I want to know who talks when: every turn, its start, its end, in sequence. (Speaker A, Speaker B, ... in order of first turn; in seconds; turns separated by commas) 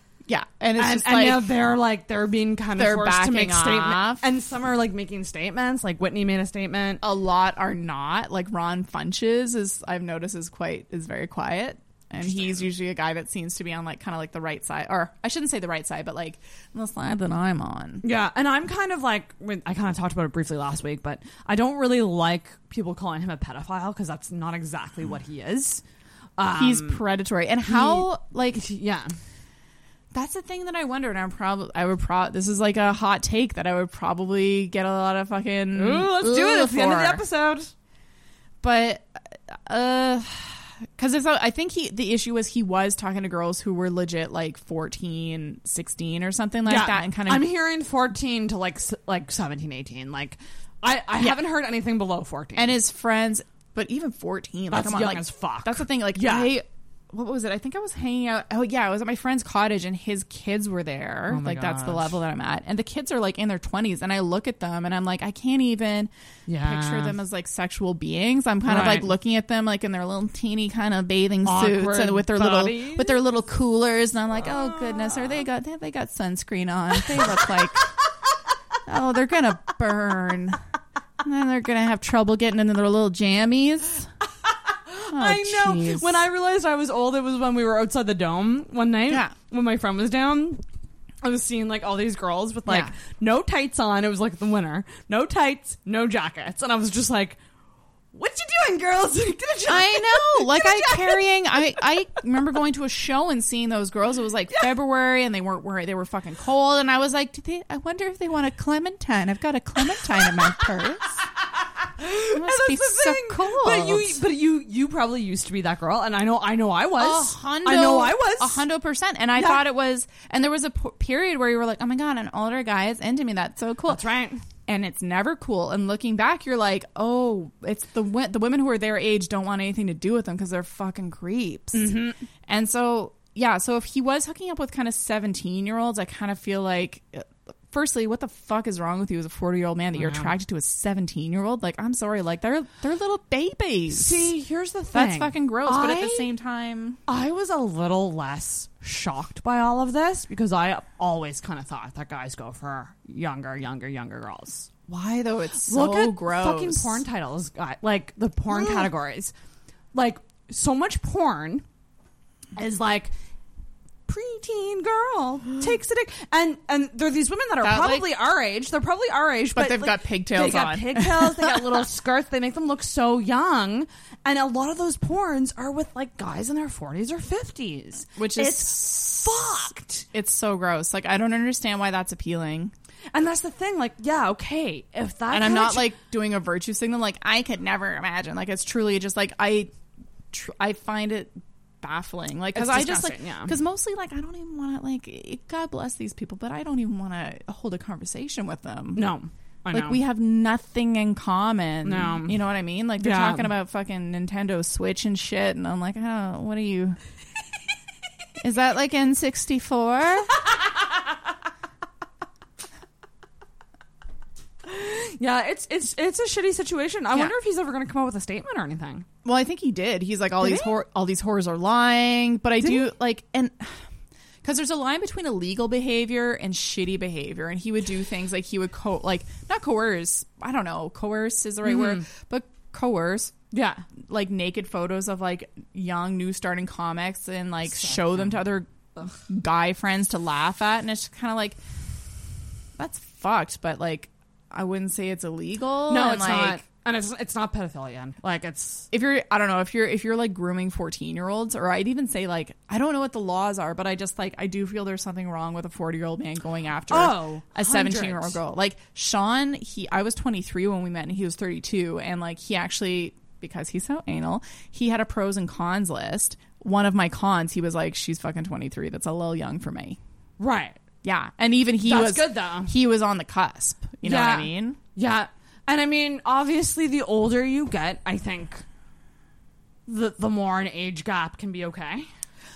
Speaker A: 0.3-1.5, Speaker B: 0.8-7.0, Speaker A: 2.8-4.2, Speaker A: 7.0-18.0, Speaker B: 12.2-12.7, Speaker B: 18.0-25.8, Speaker B: 26.4-27.0, Speaker A: 26.6-28.6, Speaker B: 27.7-29.1, Speaker A: 30.1-37.2, Speaker B: 35.8-37.7, Speaker A: 38.6-47.5, Speaker B: 46.7-52.8, Speaker A: 52.6-77.9, Speaker B: 54.7-56.5, Speaker B: 61.3-62.2, Speaker B: 66.5-67.2, Speaker B: 68.7-69.1, Speaker B: 71.4-73.2, Speaker B: 74.4-75.4, Speaker A: 78.9-80.6, Speaker A: 81.2-84.1, Speaker B: 84.5-90.6, Speaker A: 85.1-86.2, Speaker A: 89.1-89.3, Speaker B: 91.2-97.4, Speaker A: 92.7-92.9, Speaker B: 98.1-101.2, Speaker A: 99.7-111.2, Speaker B: 112.0-118.7, Speaker A: 112.3-114.2, Speaker A: 117.0-124.0, Speaker B: 119.4-119.7, Speaker B: 123.9-124.4, Speaker A: 124.7-144.3, Speaker B: 131.7-132.2, Speaker B: 139.9-140.3, Speaker B: 143.9-146.3, Speaker A: 144.9-147.0, Speaker B: 147.1-154.7, Speaker A: 154.9-157.0, Speaker B: 155.7-159.3, Speaker A: 158.5-158.9, Speaker B: 159.9-161.7, Speaker B: 162.6-163.1, Speaker B: 164.1-180.1, Speaker A: 167.6-168.1, Speaker A: 169.6-171.8, Speaker A: 178.2-179.6, Speaker A: 180.1-182.7, Speaker B: 183.1-185.9, Speaker A: 185.3-189.7, Speaker A: 190.3-199.1, Speaker B: 192.5-193.5, Speaker B: 198.9-200.0, Speaker A: 199.7-207.0, Speaker B: 201.8-202.4, Speaker B: 203.0-203.5, Speaker A: 208.4-210.3, Speaker B: 214.6-219.1, Speaker A: 219.2-223.8, Speaker B: 220.4-220.7, Speaker A: 224.4-233.3, Speaker B: 231.7-232.1, Speaker B: 233.5-233.8, Speaker A: 234.1-241.6, Speaker B: 237.8-238.4, Speaker A: 242.8-246.6, Speaker B: 245.9-248.9, Speaker A: 248.9-270.0, Speaker B: 256.9-258.4, Speaker B: 270.4-270.8, Speaker A: 271.0-274.8, Speaker B: 271.8-272.8, Speaker B: 274.0-278.6, Speaker B: 279.9-282.1